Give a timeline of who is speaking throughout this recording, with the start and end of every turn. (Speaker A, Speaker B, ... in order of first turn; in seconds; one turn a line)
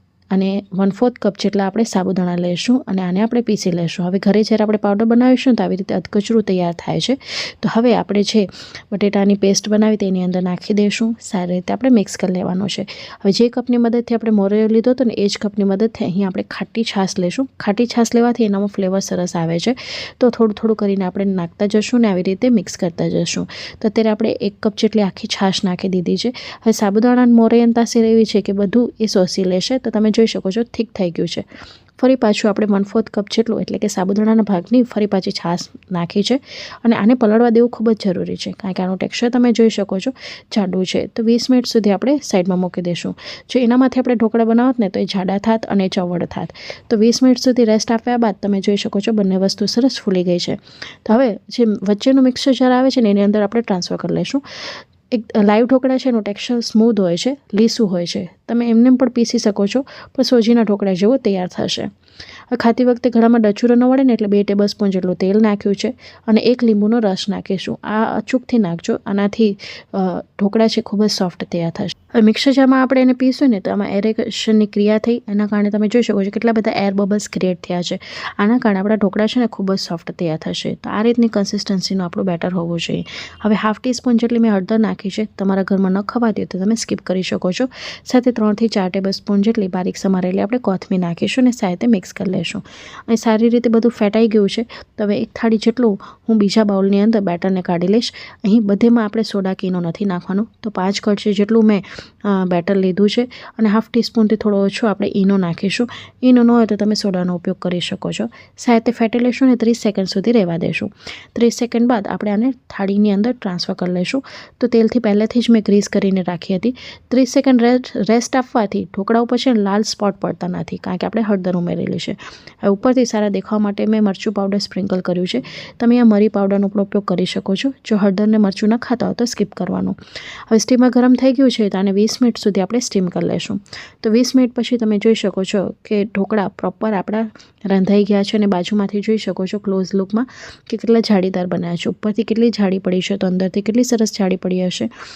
Speaker A: 0.3-31.4
Speaker A: 32.0-54.4
Speaker A: 55.1-61.9
Speaker A: 62.5-130.0
Speaker A: 130.5-144.9